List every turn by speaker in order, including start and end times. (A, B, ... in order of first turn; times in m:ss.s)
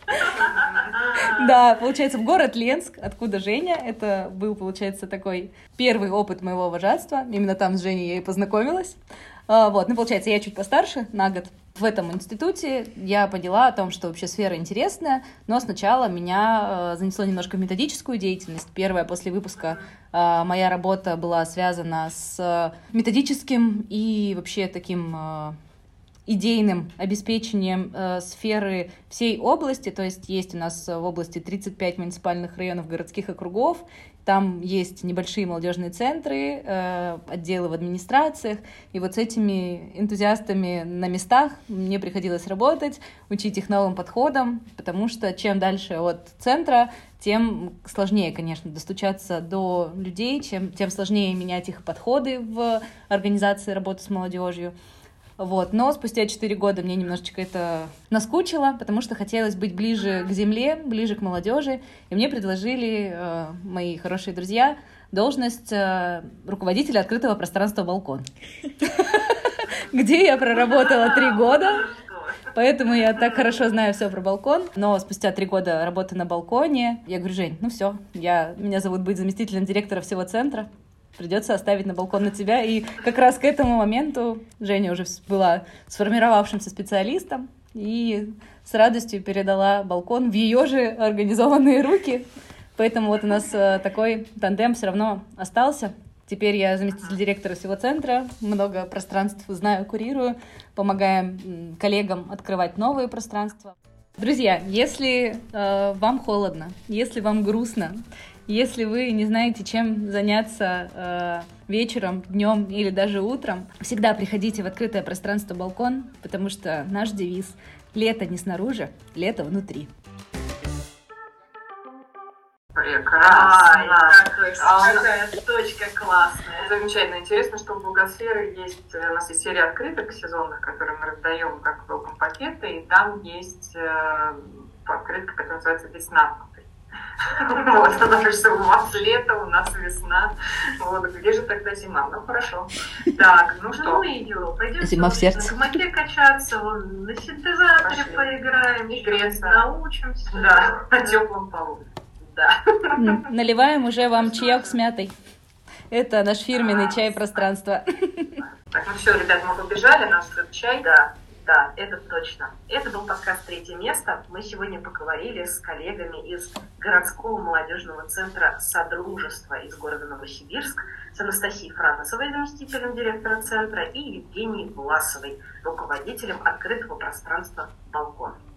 0:00.2-0:01.5 A
0:01.0-0:25.6 B
0:26.2-0:54.7 B
0:55.4-1:08.3 B
1:08.8-1:11.9 B
1:09.9-1:12.5 A
1:12.5-1:59.9 B
2:02.7-2:05.1 C
2:03.2-2:06.7 A
2:06.6-2:16.6 C
2:17.2-2:24.0 C
2:23.7-2:31.2 A
2:24.8-2:25.8 B
2:27.8-2:28.4 C
2:28.9-2:29.7 C
2:30.3-2:31.8 C
2:32.2-2:33.2 A
2:33.0-2:35.1 B
2:34.3-2:34.7 A
2:35.9-2:38.4 B
2:36.7-2:37.4 A
2:36.7-2:37.0 C
2:38.7-2:40.8 C
2:40.8-2:58.4 A